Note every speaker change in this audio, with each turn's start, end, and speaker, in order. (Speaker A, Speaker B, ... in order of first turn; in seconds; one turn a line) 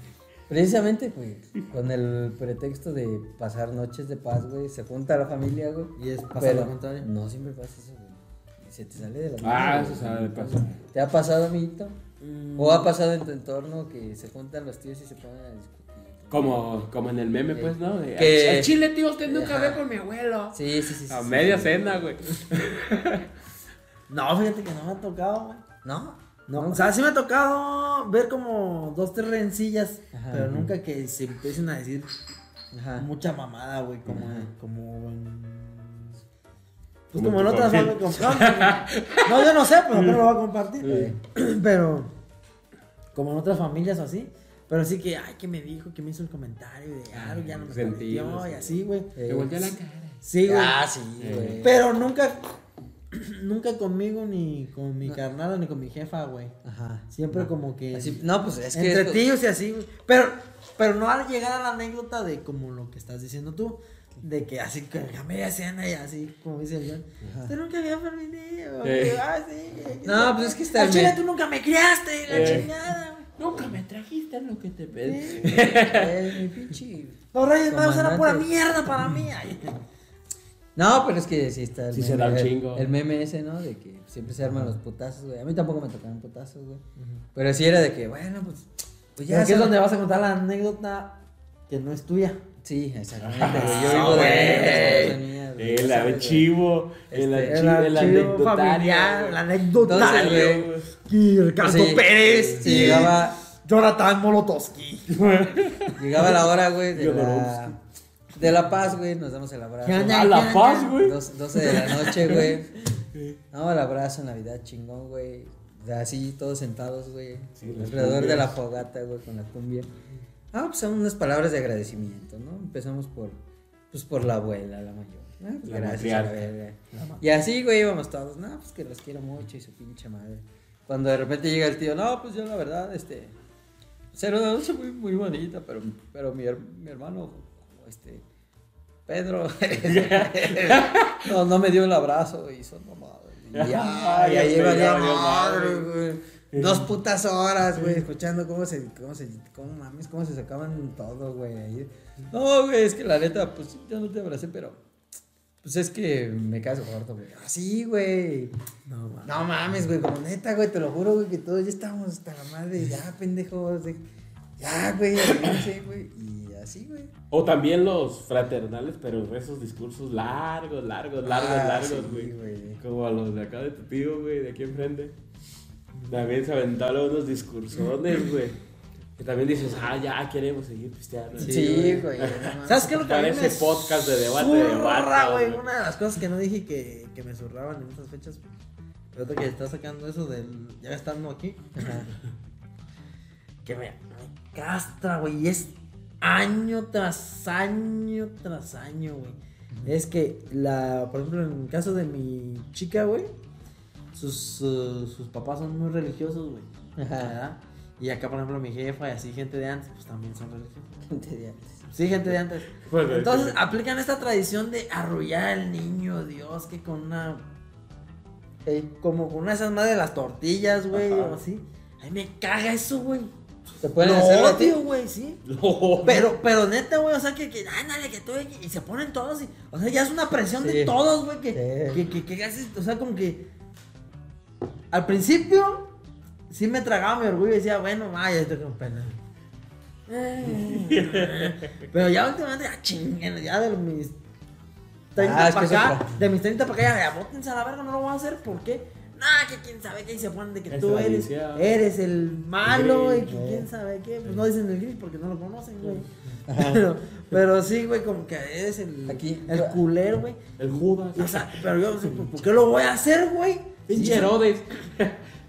Speaker A: 0.5-12.0
Speaker B: 6.0-7.1
Speaker C: 9.4-10.8
Speaker B: 12.2-12.9
Speaker A: 12.6-16.6
Speaker C: 16.3-23.3
Speaker A: 17.5-18.7
Speaker A: 19.2-19.8
Speaker A: 20.5-21.9
Speaker B: 24.1-25.6
Speaker A: 25.8-26.9
Speaker B: 26.5-32.1
Speaker A: 30.1-30.7
Speaker A: 32.7-33.1
Speaker B: 33.0-36.2
Speaker A: 34.1-34.5
Speaker B: 37.1-42.1
Speaker C: 37.1-40.2
Speaker C: 40.8-41.1
Speaker A: 40.8-41.2
Speaker B: 43.1-49.1
Speaker C: 47.1-50.2
Speaker A: 49.2-49.8
Speaker B: 50.2-50.8
Speaker A: 50.4-51.8
Speaker C: 51.2-51.6
Speaker B: 51.6-52.4
Speaker B: 53.1-56.5
Speaker A: 56.6-59.3
Speaker B: 57.1-58.2
Speaker B: 58.7-73.3
Speaker A: 67.2-67.5
Speaker C: 68.8-69.2
Speaker A: 70.0-71.2
Speaker C: 72.3-72.7
Speaker A: 72.3-72.7
Speaker C: 73.4-76.5
Speaker B: 75.0-75.7
Speaker A: 75.6-78.5
Speaker B: 77.3-79.8
Speaker A: 80.8-86.8
Speaker C: 81.9-82.9
Speaker B: 87.0-87.2
Speaker A: 87.3-89.8
Speaker B: 89.3-91.2
Speaker B: 91.7-92.4
Speaker A: 92.6-96.5
Speaker C: 93.2-100.9
Speaker B: 93.5-95.2
Speaker A: 97.1-98.3
Speaker B: 97.5-105.1
Speaker A: 99.8-100.7
Speaker A: 101.6-103.4
Speaker C: 102.7-103.0
Speaker C: 105.1-107.8
Speaker A: 106.0-107.8
Speaker A: 108.4-110.4
Speaker B: 109.8-111.0
Speaker C: 110.0-112.6
Speaker A: 111.0-112.7
Speaker C: 113.1-113.4
Speaker A: 113.5-119.9
Speaker C: 117.6-118.5
Speaker A: 120.5-123.4
Speaker A: 123.9-133.3
Speaker C: 125.6-126.5
Speaker B: 126.9-127.3
Speaker A: 134.1-138.2
Speaker A: 139.1-154.8
Speaker C: 139.8-141.3
Speaker C: 143.5-145.9
Speaker B: 144.4-145.2
Speaker C: 146.5-146.9
Speaker C: 147.8-148.1
Speaker A: 155.6-158.6
Speaker B: 158.9-159.4
Speaker A: 159.2-164.0
Speaker A: 164.6-167.1
Speaker C: 167.3-175.1
Speaker A: 171.2-172.8
Speaker B: 175.9-176.3
Speaker C: 176.1-178.6
Speaker C: 179.2-185.6
Speaker B: 181.4-182.1
Speaker A: 181.4-182.9
Speaker B: 182.7-188.5
Speaker B: 189.1-192.0
Speaker A: 191.8-192.1
Speaker B: 193.7-203.3
Speaker A: 199.7-200.0
Speaker B: 204.1-211.0
Speaker A: 207.0-207.4
Speaker A: 211.1-211.9
Speaker B: 211.9-217.5
Speaker C: 212.8-213.6
Speaker A: 218.7-218.9
Speaker B: 219.0-223.3
Speaker C: 220.9-221.4
Speaker A: 223.8-224.8
Speaker B: 224.0-225.4
Speaker C: 225.5-226.3
Speaker B: 226.0-233.5
Speaker A: 230.6-231.0
Speaker A: 231.5-232.1
Speaker B: 234.9-235.9
Speaker B: 236.5-239.2
Speaker B: 240.1-244.2
Speaker C: 240.5-241.7
Speaker B: 245.2-264.4
Speaker A: 245.2-246.1
Speaker C: 250.7-251.8
Speaker C: 252.6-253.3
Speaker A: 253.2-253.7
Speaker C: 255.8-256.1
Speaker A: 256.5-256.9
Speaker A: 259.1-259.8
Speaker C: 260.6-262.3
Speaker C: 263.9-265.2